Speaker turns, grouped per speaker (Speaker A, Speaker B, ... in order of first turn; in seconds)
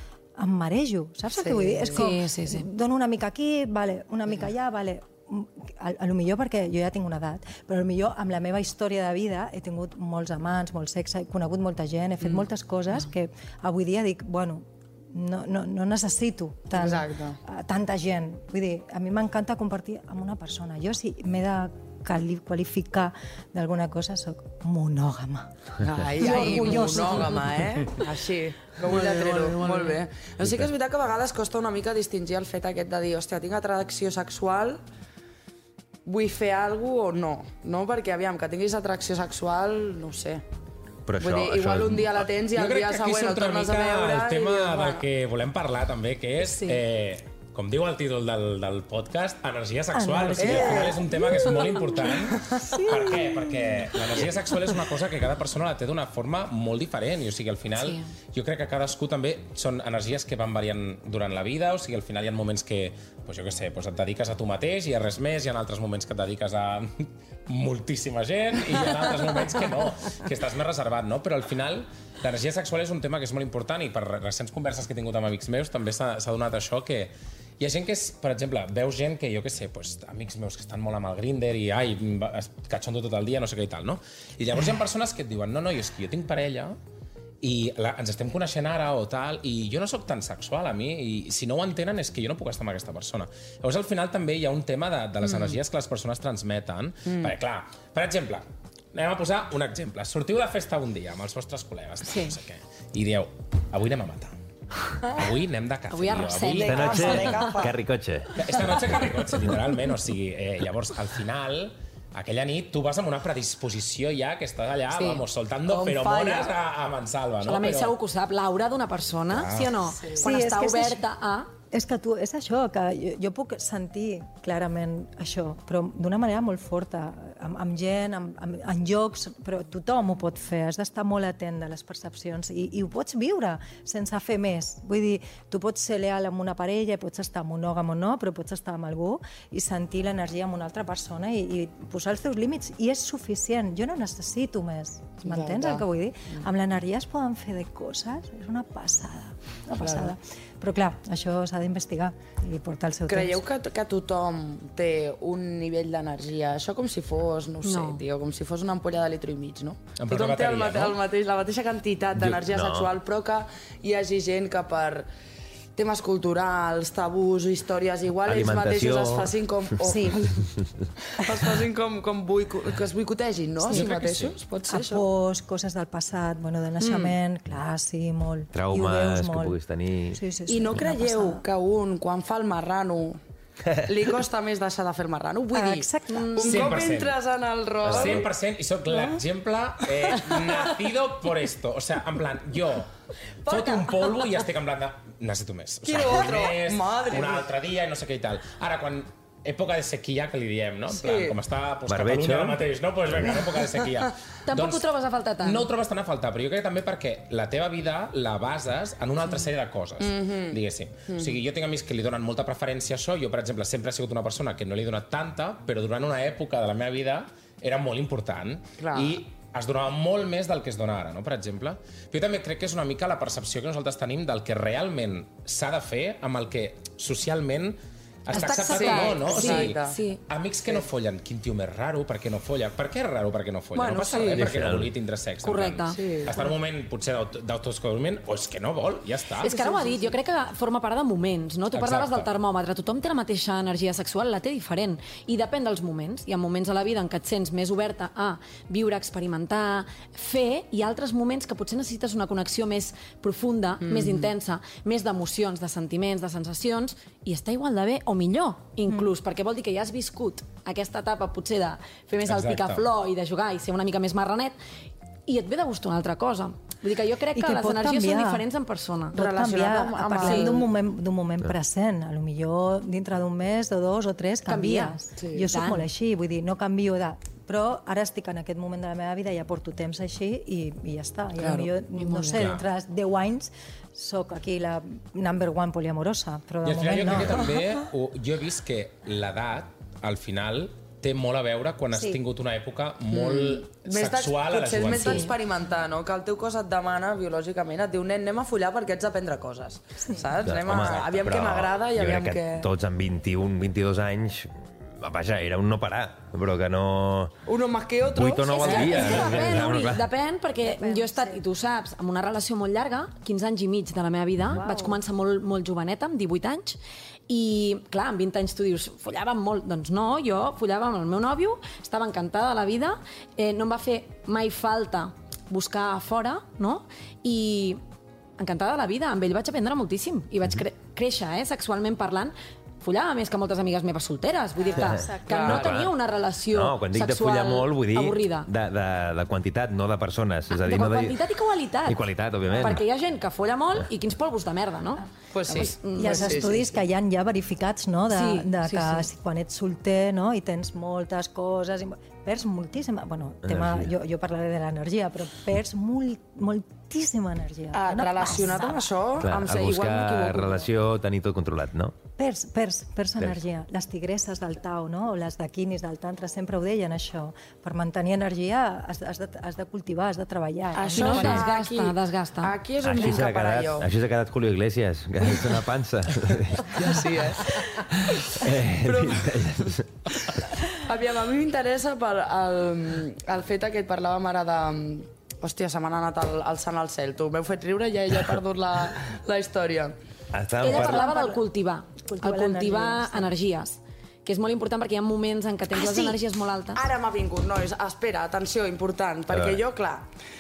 Speaker A: 0.4-27.7, 49.9-53.8, 120.2-121.0, 121.7-153.4, 169.8-170.4, 173.6-179.6, 180.1-181.4, 185.5-186.8, 267.3-268.4, 269.1-287.5, 291.9-292.2, 310.6-311.4, 314.6-314.9, 334.6-335.6, 346.0-358.9, 362.2-371.5, 390.6-391.4, 392.1-393.3
Speaker B: 1.3-2.0, 16.7-17.4, 25.8-34.8, 36.0-40.4, 41.2-45.0, 50.4-51.3, 52.1-52.6, 106.5-107.7, 115.0-116.5, 145.2-145.8, 149.8-150.1, 153.1-165.1, 165.8-170.3, 171.1-175.0, 176.8-177.2, 180.5-183.2, 183.8-188.3, 193.4-194.0, 195.8-197.4, 200.9-201.4, 210.1-210.5, 218.8-219.2, 228.7-230.0, 233.7-234.5, 235.9-236.4, 239.4-240.1, 253.8-254.3, 269.1-270.7, 275.2-275.5, 281.4-281.7, 293.1-302.7, 307.4-309.7, 335.3-335.8, 345.3-346.7, 357.7-360.6, 370.7-373.9, 376.7-379.4, 380.2-389.9, 395.7-396.2, 396.7-400.1
Speaker C: 1.9-2.7, 26.2-27.4, 29.1-29.9, 57.8-58.1, 102.0-102.4, 105.9-107.6, 117.4-121.5, 157.6-158.0, 186.1-186.4, 204.4-205.7, 228.3-230.2, 235.4-236.0, 239.4-264.5, 265.3-269.2, 270.1-270.6, 274.4-275.9, 281.5-282.5, 308.5-327.8, 328.4-338.5, 340.5-346.5, 348.1-349.1, 370.9-372.5, 390.6-396.9
Speaker D: 41.1-42.3, 106.7-108.4, 162.2-162.9, 168.2-169.3, 170.5-170.8, 174.0-174.3, 178.5-180.2, 183.6-184.1, 187.9-188.2, 201.9-202.6, 234.3-234.9, 300.4-307.3, 308.1-310.1, 335.4-335.9, 336.5-341.2, 341.9-342.8, 353.4-353.9, 359.2-361.9, 372.8-377.1, 378.0-380.1, 390.3-391.1, 399.3-399.6
Speaker E: 42.5-86.8, 87.4-104.3, 105.0-107.2, 108.3-118.0, 119.3-119.7, 160.0-161.0, 186.4-187.2, 187.8-192.9, 193.4-204.8, 205.4-239.5, 241.7-242.3, 262.2-262.8, 282.3-282.6, 286.6-295.3